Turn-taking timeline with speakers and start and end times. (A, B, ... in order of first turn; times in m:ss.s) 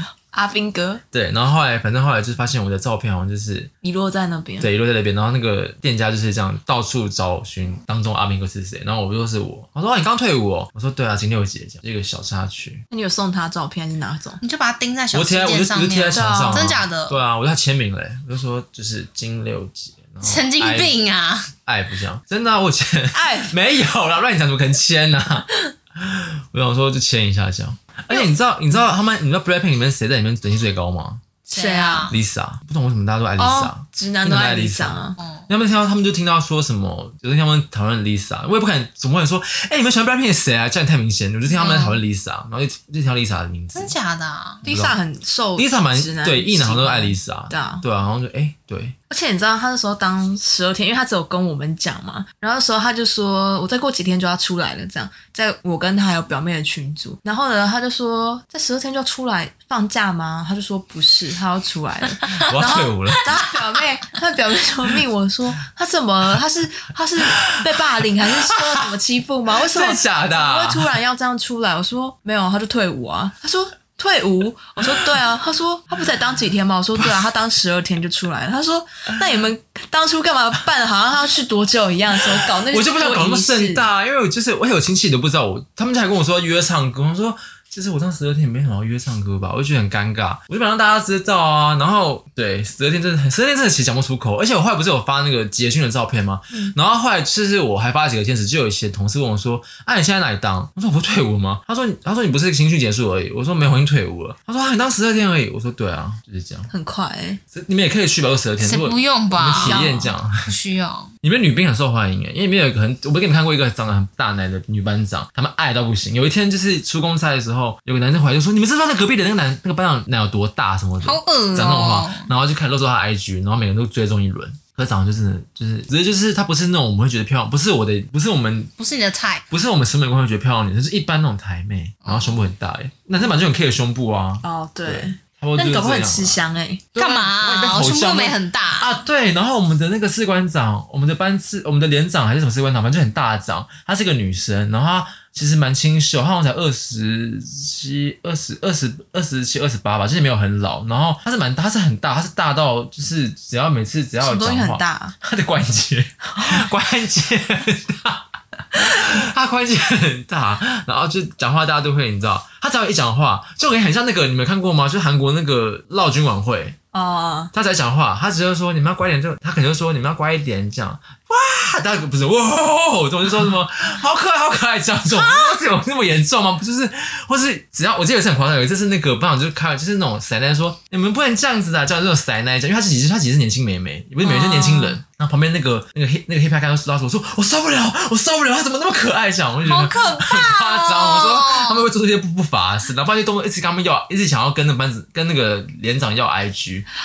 0:00.3-0:01.0 A
0:01.1-0:03.7 B
0:03.8-0:04.7 A
0:04.6-0:12.8 B
0:12.9-0:14.4 A
0:14.4-0:17.2 C
0:15.1-0:21.0 B
0:16.1-0:16.8 A
0:20.2-0:21.5 C
0:21.6-0:31.2 B
0:23.1-0:23.5 A
0:31.5-0:32.2 C
0:31.5-0:32.1 A
0:32.1-0:43.9 B
0:33.4-0:35.2 A
0:35.2-0:35.5 C
0:41.5-0:42.0 C
0:43.8-0:44.6 C
0:44.6-0:45.0 B
0:44.6-0:47.8 A
0:45.6-0:49.0 B
0:49.1-1:23.9 A
1:02.4-1:03.5 B
1:07.2-1:07.7 B
1:08.2-1:08.9 B
1:09.5-1:11.0 B
1:22.3-1:46.7 B
1:46.7-1:47.4 A
1:47.5-1:50.5 B
1:48.6-1:49.9 C
1:49.5-1:50.1 A
1:50.5-1:51.1 C
1:51.2-2:08.7 B
2:01.0-2:02.3 C
2:08.8-2:09.4 C
2:09.5-2:16.4 B
2:12.0-2:12.4 C
2:14.4-2:16.8 A
2:17.0-2:46.8 B
2:17.0-2:18.9 C
2:34.2-2:35.2 A
2:36.3-2:36.6 A
2:46.9-2:47.5 A
2:47.5-3:16.9 B
3:04.2-3:05.0 A
3:09.6-3:11.9 C